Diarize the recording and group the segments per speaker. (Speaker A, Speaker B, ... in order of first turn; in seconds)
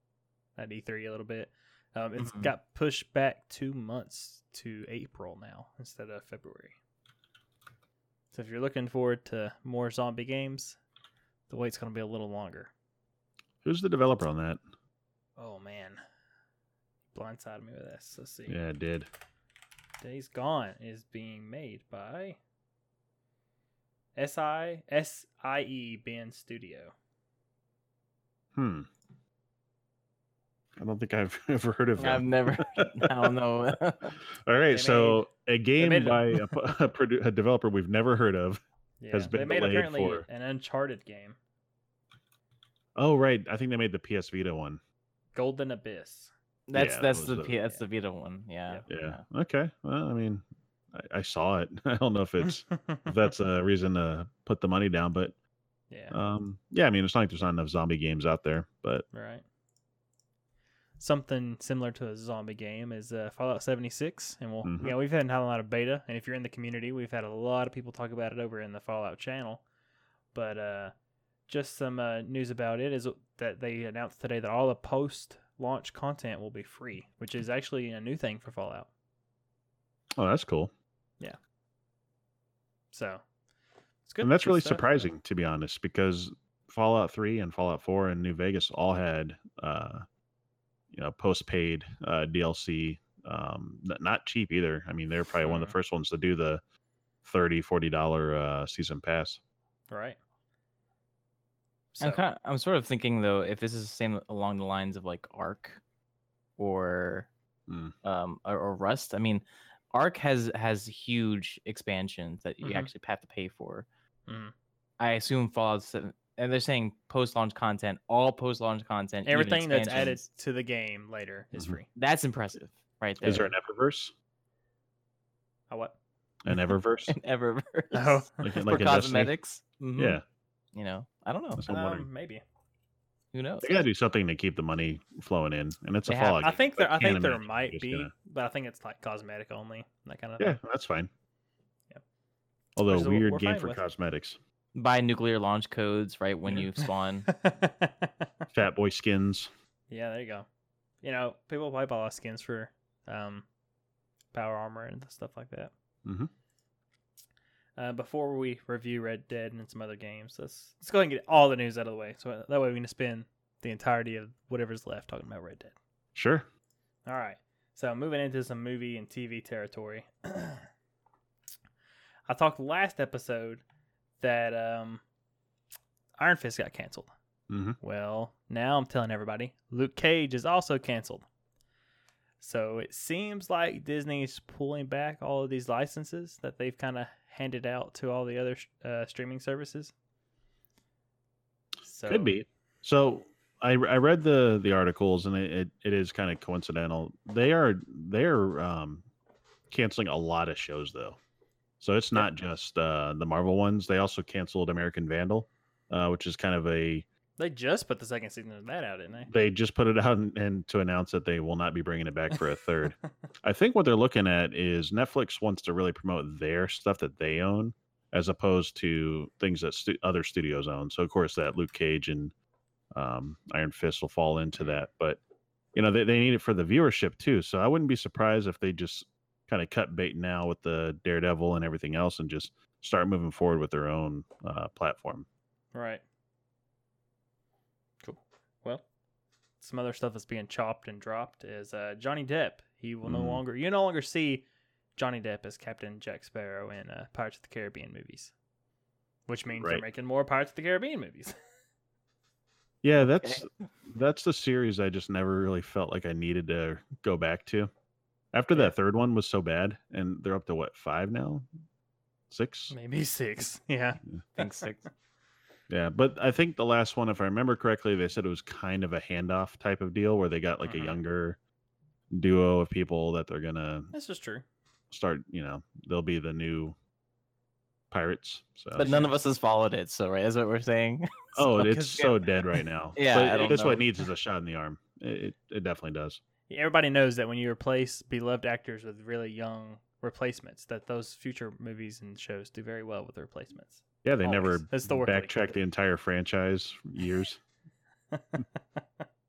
Speaker A: 0.6-6.8, 8.3-10.8, 11.5-12.7, 15.4-16.0, 17.1-18.6, 20.0-22.4, 24.2-26.9, 34.7-35.3, 35.8-36.4, 39.0-41.4, 45.3-46.3, 52.4-53.1, 59.1-59.4, 61.0-69.6, 70.3-70.9, 71.5-78.9, 82.9-83.2, 84.0-85.1, 95.4-95.7, 99.9-100.2, 101.9-102.2, 112.6-112.9, 114.3-114.5, 119.2-121.9, 125.7-125.9, 127.9-128.2, 131.7-132.4, 136.4-140.6, 142.9-143.8, 146.5-148.5, 149.9-150.4, 151.0-153.4, 154.3-155.7, 157.8-165.7, 167.1-170.7, 172.3-173.6, 174.2-175.0, 176.2-177.1, 177.8-181.2, 182.4-189.9, 191.8-192.3, 207.4-209.3, 235.7-236.0, 238.0-238.8, 239.6-248.3, 249.3-251.3, 262.7-264.7, 270.6-271.0, 273.9-274.4, 278.8-279.1, 281.6-282.0, 283.3-283.7, 286.5-295.5, 298.1-299.1
Speaker B: 2.2-2.5, 32.0-34.1, 46.7-49.2, 102.0-105.8, 106.6-107.3, 108.0-113.8, 115.0-120.2, 121.9-123.5, 127.1-130.2, 130.7-131.7, 133.3-133.8, 136.1-136.4, 144.7-147.3, 253.2-253.4, 264.4-264.8, 278.7-282.2, 282.9-283.8
Speaker C: 13.6-14.6, 18.5-19.1, 28.5-28.9, 30.8-33.4, 34.3-40.2, 43.0-44.8, 46.7-47.5, 48.9-55.3, 56.1-59.0, 64.6-64.9, 80.2-80.7, 84.2-90.0, 90.9-96.6, 97.2-99.4, 107.7-107.9, 123.2-124.1, 126.4-127.1, 128.4-129.3, 130.0-130.2, 131.6-132.1, 133.6-138.1, 140.4-141.1, 142.8-144.4, 148.5-149.5, 156.0-156.3, 166.1-166.4, 177.5-177.8, 192.1-199.0, 199.7-201.2, 201.8-207.0, 209.3-222.3, 222.9-225.2, 225.7-235.2, 243.0-243.4, 249.5-249.8, 252.8-257.7, 258.3-261.4, 262.3-262.7, 265.7-271.4, 272.1-273.9, 274.9-276.8, 277.9-278.9, 281.4-286.2, 294.0-297.4